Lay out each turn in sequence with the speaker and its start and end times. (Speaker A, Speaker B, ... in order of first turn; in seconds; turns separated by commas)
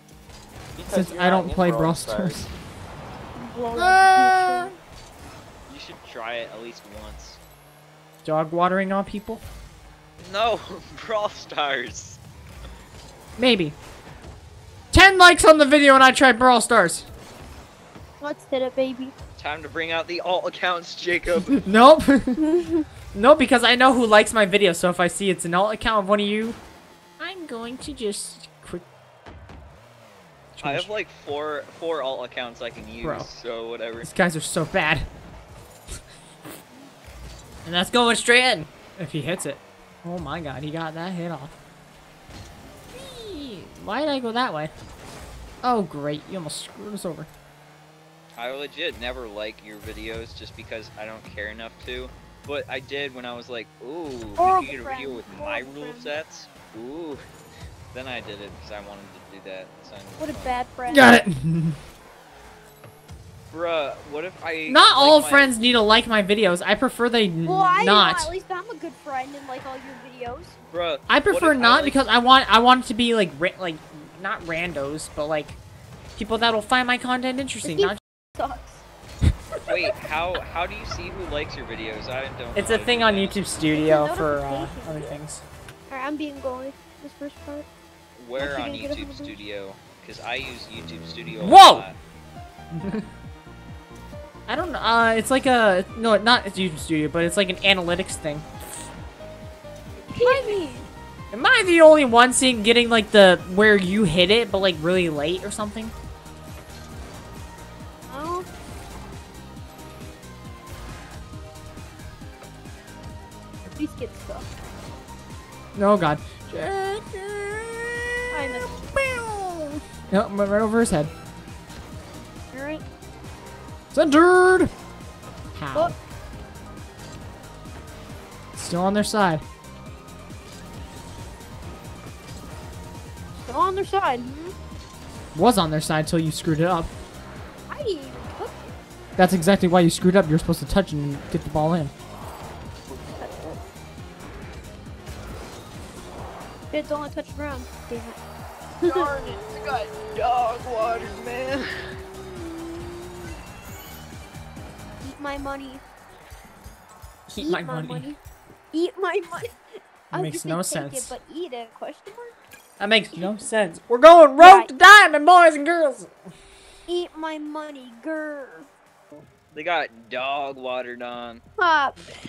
Speaker A: 0.8-2.5, Speaker B: 0.9-2.5, Speaker C: 3.4-4.7, Speaker B: 3.7-4.7, Speaker A: 5.7-7.4, Speaker B: 8.2-9.4, Speaker A: 10.2-12.2, Speaker B: 13.4-13.8, Speaker B: 14.9-17.1, Speaker C: 18.2-19.1, Speaker A: 19.4-21.6, Speaker B: 21.6-22.4, Speaker C: 22.4-22.8, Speaker B: 23.1-26.6, Speaker B: 27.2-28.8, Speaker B: 30.5-30.9, Speaker A: 30.6-34.1, Speaker B: 33.0-33.3, Speaker B: 34.0-35.1, Speaker B: 37.6-41.5, Speaker B: 42.9-44.7, Speaker B: 45.6-47.3, Speaker A: 48.4-57.2, Speaker C: 54.4-56.1, Speaker A: 57.9-60.6, Speaker C: 60.2-61.1, Speaker B: 60.9-61.8, Speaker A: 63.5-65.6, Speaker B: 64.7-68.3, Speaker C: 67.4-70.6, Speaker A: 70.7-72.1, Speaker B: 71.1-75.6, Speaker B: 76.2-78.0, Speaker C: 77.6-78.8, Speaker A: 79.6-83.4, Speaker B: 82.5-85.4, Speaker C: 83.7-85.2, Speaker C: 85.9-87.7, Speaker A: 88.2-92.0, Speaker C: 88.4-89.4, Speaker B: 91.3-91.9, Speaker B: 92.7-93.0, Speaker B: 94.5-98.7, Speaker C: 100.1-100.9, Speaker B: 100.1-100.6, Speaker B: 101.3-105.9, Speaker C: 108.1-108.5, Speaker C: 113.7-114.5, Speaker B: 115.7-121.1, Speaker C: 118.3-118.8, Speaker C: 122.5-122.8, Speaker B: 123.9-124.7, Speaker B: 125.5-126.0, Speaker B: 128.6-129.4, Speaker C: 133.4-134.5, Speaker B: 135.3-136.9, Speaker C: 137.7-138.8, Speaker B: 139.2-141.9, Speaker C: 143.1-143.6, Speaker C: 146.7-148.2, Speaker C: 148.8-149.3, Speaker A: 148.9-151.7, Speaker C: 155.0-155.8, Speaker B: 157.3-158.1, Speaker C: 157.4-158.2, Speaker C: 158.7-159.5, Speaker C: 160.1-162.3, Speaker B: 160.1-161.2, Speaker B: 162.8-166.1, Speaker C: 164.4-164.7, Speaker C: 166.9-168.7, Speaker A: 169.5-171.4, Speaker C: 171.6-172.0